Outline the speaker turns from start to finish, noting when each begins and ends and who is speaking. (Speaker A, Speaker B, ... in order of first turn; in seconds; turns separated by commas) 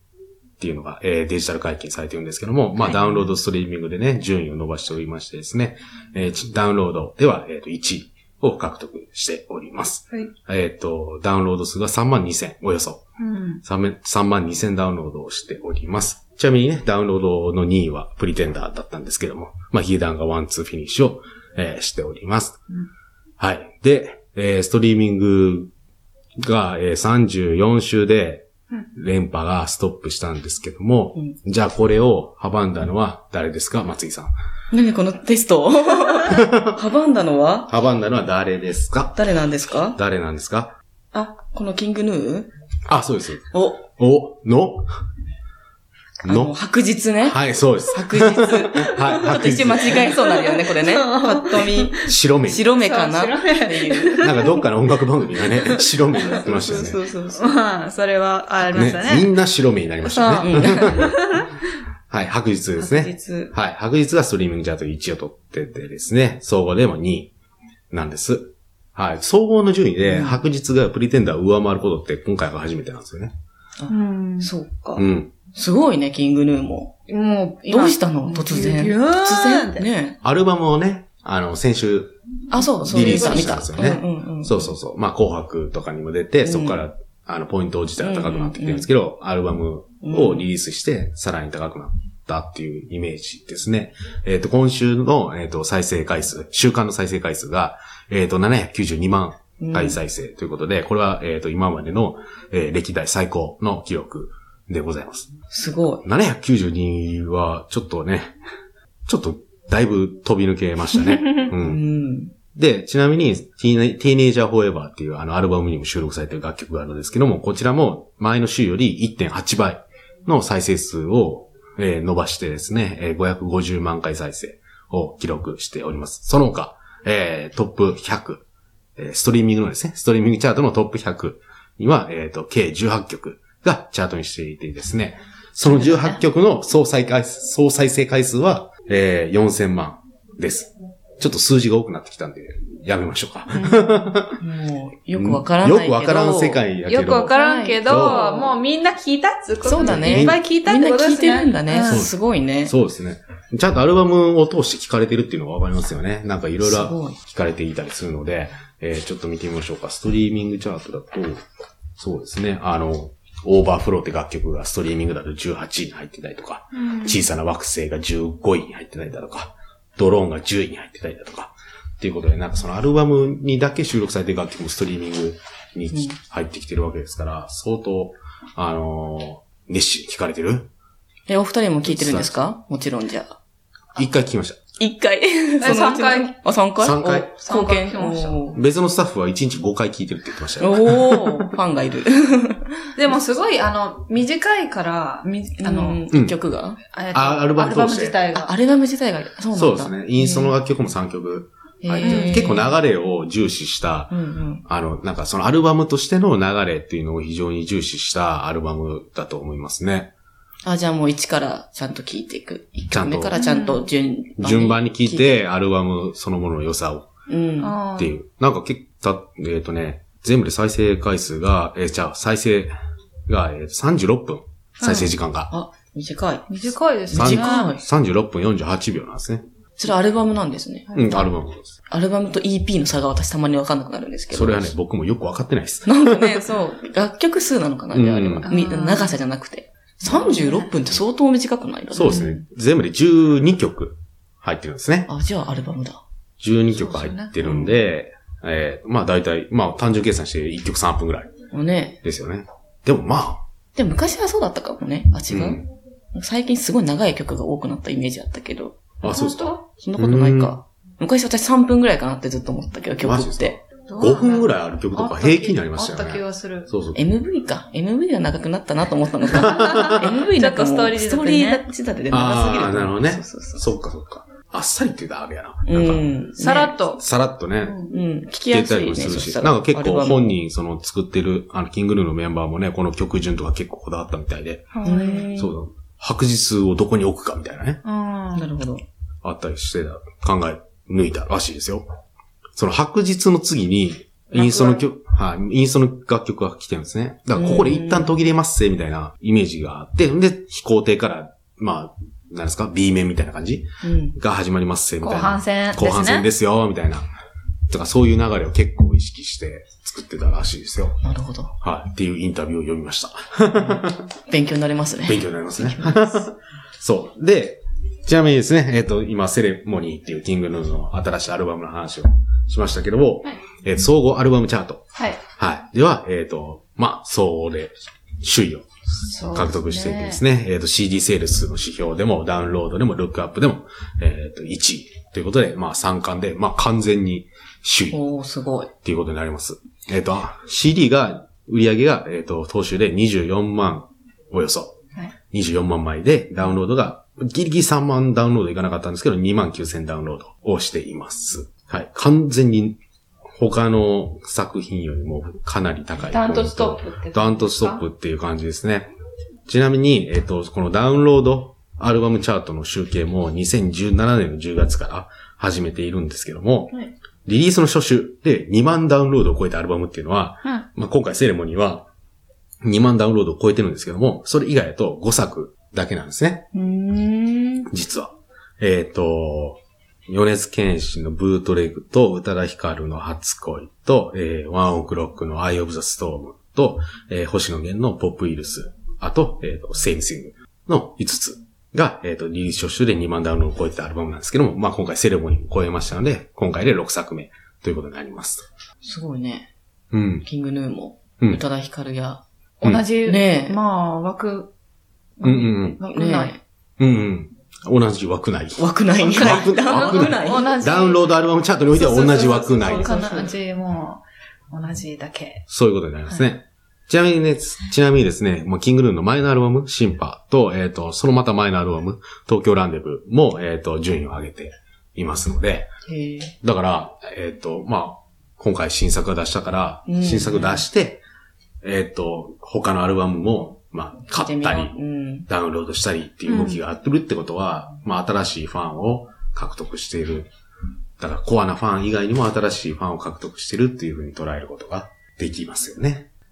Speaker A: 0.6-13.0, Speaker B: 13.2-13.6, Speaker A: 13.6-22.6, Speaker A: 23.4-25.7, Speaker A: 26.4-34.3, Speaker C: 34.7-37.7, Speaker A: 36.3-36.7, Speaker A: 37.7-39.2, Speaker C: 39.1-40.0, Speaker A: 39.9-40.7, Speaker C: 41.1-42.5, Speaker A: 42.9-44.9, Speaker C: 43.5-43.8, Speaker C: 46.2-54.3, Speaker A: 46.2-46.5, Speaker A: 47.2-50.0, Speaker B: 49.9-52.1, Speaker A: 52.0-52.7, Speaker B: 52.7-54.6, Speaker A: 54.2-57.0, Speaker C: 56.1-57.5, Speaker B: 57.3-59.3, Speaker A: 58.7-61.2, Speaker B: 60.0-61.6, Speaker C: 60.4-61.1, Speaker A: 62.1-67.3, Speaker C: 62.8-63.5, Speaker A: 67.9-73.3, Speaker C: 70.1-70.4, Speaker C: 73.8-76.9, Speaker B: 73.9-74.5, Speaker A: 75.0-75.3, Speaker B: 77.1-79.9, Speaker C: 77.7-80.2, Speaker A: 80.2-82.1, Speaker C: 82.5-84.7, Speaker A: 82.7-105.3, Speaker B: 83.0-83.6, Speaker C: 86.4-86.8, Speaker C: 88.0-88.9, Speaker C: 90.0-90.4, Speaker C: 99.6-100.0, Speaker C: 105.5-106.0, Speaker A: 106.0-108.4, Speaker A: 109.0-111.8, Speaker C: 111.6-112.3, Speaker A: 112.5-128.4, Speaker A: 129.0-144.4, Speaker C: 135.7-136.2, Speaker B: 143.6-143.9, Speaker C: 144.4-146.6, Speaker A: 145.1-148.3, Speaker B: 146.8-152.0, Speaker C: 147.3-148.6, Speaker C: 149.6-152.7, Speaker A: 149.8-150.4, Speaker A: 151.9-161.4, Speaker C: 156.6-157.2, Speaker A: 162.0-180.7, Speaker B: 166.7-167.2, Speaker C: 175.9-176.2, Speaker C: 181.3-183.4, Speaker A: 181.8-182.5, Speaker A: 183.9-184.6, Speaker C: 184.8-188.6, Speaker B: 185.6-186.3, Speaker A: 186.8-187.3, Speaker B: 187.4-188.5, Speaker A: 188.6-191.4, Speaker C: 190.6-192.7, Speaker B: 193.0-196.0, Speaker C: 195.6-196.8, Speaker A: 196.1-196.3, Speaker B: 196.9-198.5, Speaker A: 197.1-198.2, Speaker C: 198.3-200.5, Speaker A: 199.5-204.1, Speaker C: 201.8-202.7, Speaker B: 202.0-202.5, Speaker C: 204.1-204.6, Speaker A: 204.6-210.1, Speaker C: 210.6-215.4, Speaker A: 212.9-213.3, Speaker B: 213.3-213.9, Speaker A: 214.4-217.1, Speaker C: 217.3-217.8, Speaker B: 217.6-218.2, Speaker A: 218.0-222.7, Speaker A: 223.3-225.5, Speaker B: 224.8-225.1, Speaker C: 225.5-226.5, Speaker B: 226.5-227.7, Speaker C: 227.1-227.8, Speaker A: 227.1-229.4, Speaker C: 229.8-230.9, Speaker A: 230.9-231.7, Speaker C: 231.9-234.7, Speaker A: 234.3-236.5, Speaker C: 235.8-242.3, Speaker A: 237.9-238.5, Speaker B: 238.4-239.2, Speaker B: 240.0-240.7, Speaker A: 241.9-245.1, Speaker B: 242.0-242.3, Speaker C: 245.1-246.0, Speaker A: 246.4-251.3, Speaker B: 246.8-247.4, Speaker C: 247.4-247.7, Speaker C: 251.5-252.0, Speaker A: 252.0-253.4, Speaker C: 253.8-258.8, Speaker A: 255.3-255.6, Speaker A: 259.0-260.6, Speaker B: 259.0-259.6, Speaker C: 259.8-263.6, Speaker A: 263.0-267.0, Speaker B: 263.9-266.7, Speaker C: 266.9-273.6, Speaker A: 269.3-270.0, Speaker B: 269.6-271.6, Speaker A: 272.1-276.1, Speaker C: 275.6-276.7, Speaker B: 276.4-277.0, Speaker A: 277.0-277.8, Speaker B: 277.6-277.9, Speaker C: 277.9-280.3, Speaker A: 278.5-284.7, Speaker B: 284.7-285.3, Speaker C: 284.8-285.5, Speaker A: 285.3-287.8, Speaker B: 287.8-288.5, Speaker C: 288.3-288.8, Speaker A: 289.2-291.9, Speaker A: 292.6-307.1, Speaker B: 294.3-294.8, Speaker C: 297.3-298.1, Speaker C: 303.8-304.1, Speaker B: 305.0-306.3, Speaker A: 307.7-311.0, Speaker C: 311.0-311.5, Speaker A: 311.6-314.1, Speaker C: 313.6-316.2, Speaker A: 315.1-324.8, Speaker A: 325.4-328.7, Speaker B: 329.0-330.2, Speaker A: 329.3-338.0, Speaker C: 337.9-338.7, Speaker A: 338.8-344.7, Speaker A: 345.3-352.8, Speaker A: 353.3-358.9, Speaker B: 356.0-357.8, Speaker A: 359.5-366.7, Speaker A: 367.2-371.9, Speaker A: 372.6-376.5, Speaker C: 376.6-377.6, Speaker A: 377.7-398.4, Speaker C: 398.8-399.5, Speaker A: 399.9-400.2, Speaker C: 400.2-402.2, Speaker B: 402.6-404.5, Speaker C: 403.0-403.6, Speaker B: 405.2-406.4, Speaker A: 405.2-405.8, Speaker C: 405.8-406.4, Speaker A: 406.8-413.1, Speaker C: 408.6-410.5, Speaker B: 409.1-411.1, Speaker B: 411.7-415.4, Speaker C: 412.7-413.3, Speaker A: 415.5-425.7, Speaker C: 425.9-426.3, Speaker A: 426.4-431.0, Speaker C: 429.9-430.6, Speaker A: 431.6-434.8, Speaker C: 434.1-435.3, Speaker A: 435.3-440.3, Speaker B: 436.3-436.6, Speaker A: 441.0-446.1